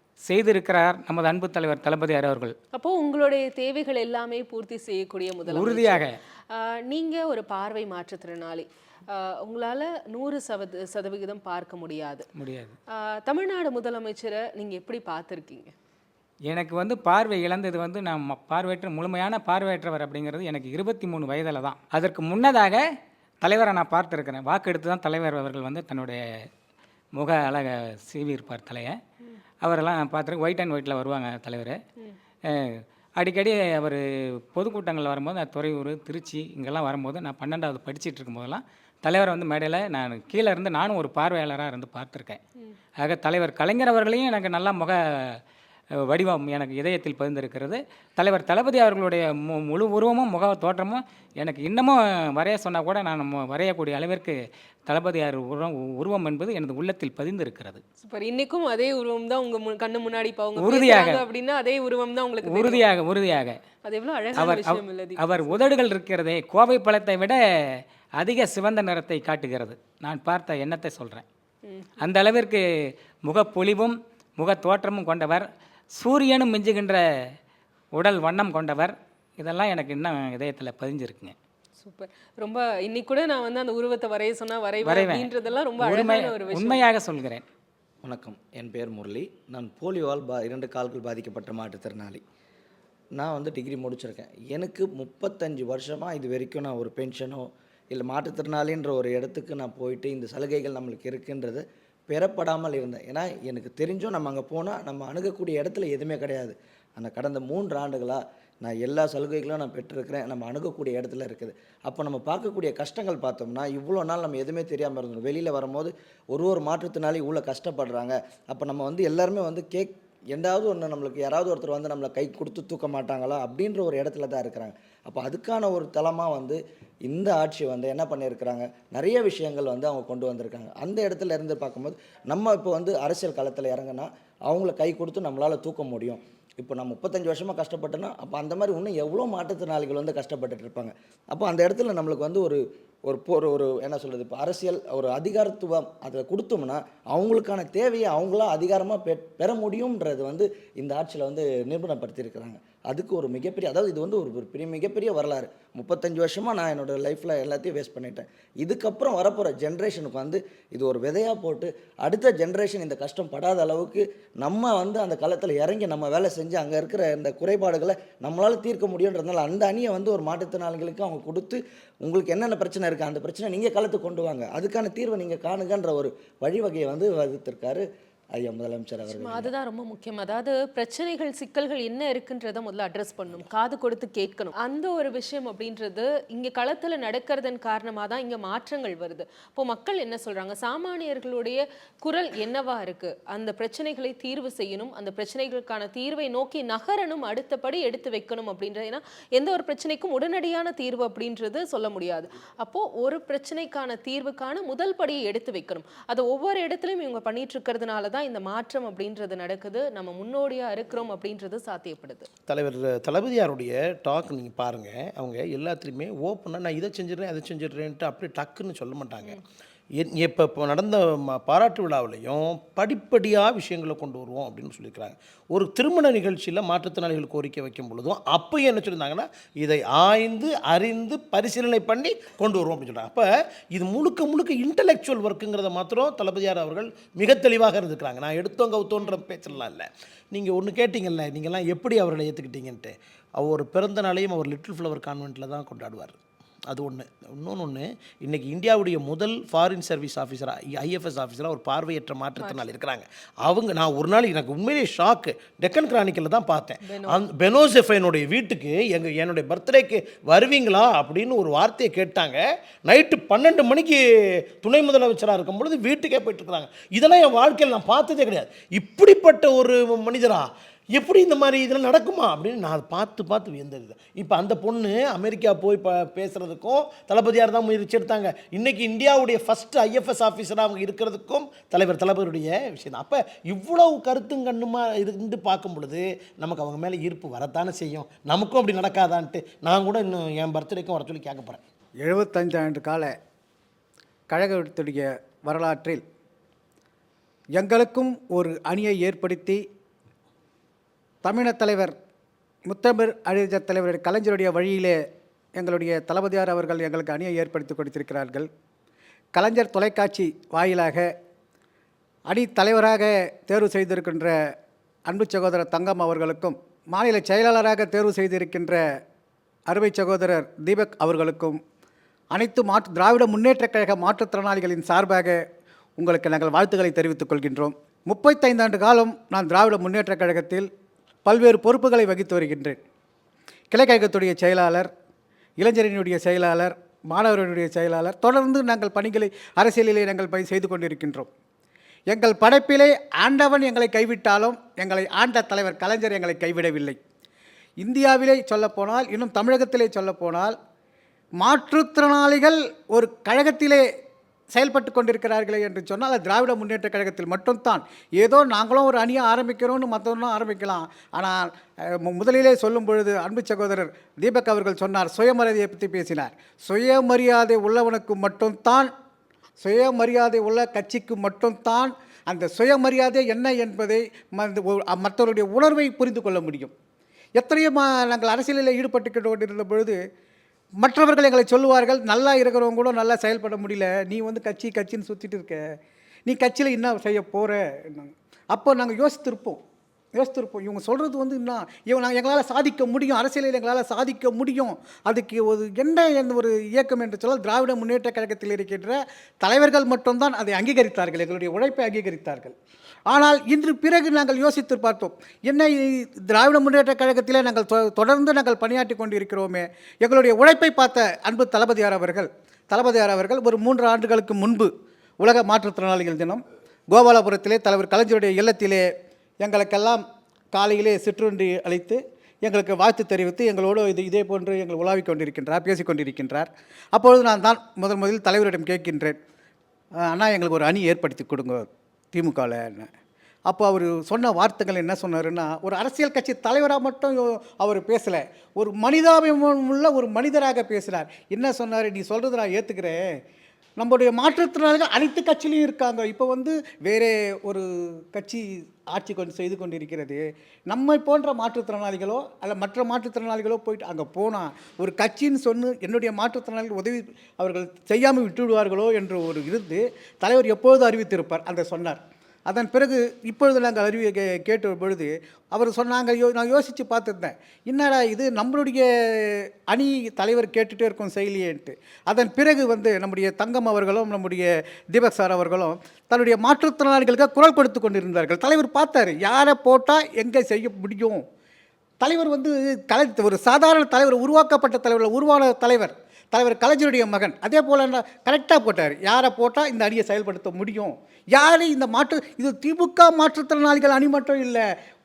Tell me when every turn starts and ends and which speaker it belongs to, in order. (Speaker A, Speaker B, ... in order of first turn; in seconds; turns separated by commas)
Speaker A: 0.3-2.5, Speaker B: 2.7-12.3, Speaker A: 5.5-6.2, Speaker A: 12.4-12.7, Speaker B: 12.9-15.7, Speaker A: 16.5-22.8, Speaker A: 23.4-26.2, Speaker A: 27.1-29.0, Speaker A: 29.6-31.8, Speaker A: 32.5-42.4, Speaker A: 43.0-45.4, Speaker A: 46.0-57.8, Speaker B: 58.0-62.8, Speaker A: 60.6-61.2, Speaker A: 62.5-63.6, Speaker B: 63.8-65.6, Speaker A: 64.4-71.2, Speaker B: 71.6-71.9, Speaker A: 72.0-72.6, Speaker A: 73.3-77.0, Speaker A: 78.0-81.3, Speaker B: 81.8-86.8, Speaker A: 84.8-85.3, Speaker A: 85.8-87.4, Speaker C: 88.0-92.2, Speaker C: 93.2-179.5, Speaker B: 179.1-212.3, Speaker D: 212.5-219.4, Speaker D: 220.0-291.6, Speaker B: 256.8-257.2, Speaker E: 292.0-293.1, Speaker E: 294.3-296.0, Speaker E: 297.6-299.6, Speaker E: 301.2-301.9, Speaker E: 302.6-305.0, Speaker E: 305.6-308.5, Speaker E: 309.3-311.1, Speaker E: 312.3-314.3, Speaker E: 315.1-318.8, Speaker E: 319.7-321.6, Speaker E: 322.3-325.4, Speaker E: 326.0-330.7, Speaker E: 331.2-332.8, Speaker E: 333.7-334.9, Speaker E: 335.6-341.3, Speaker E: 342.1-347.0, Speaker E: 347.8-350.6, Speaker E: 351.4-353.8, Speaker E: 354.5-368.9, Speaker E: 369.6-376.7, Speaker E: 377.4-380.0, Speaker E: 380.8-385.6, Speaker E: 386.2-389.6, Speaker E: 390.1-402.6, Speaker E: 403.1-418.8, Speaker E: 419.4-420.0, Speaker E: 420.5-429.1, Speaker E: 430.1-432.9, Speaker E: 433.5-443.0, Speaker E: 443.8-481.2, Speaker E: 482.0-494.6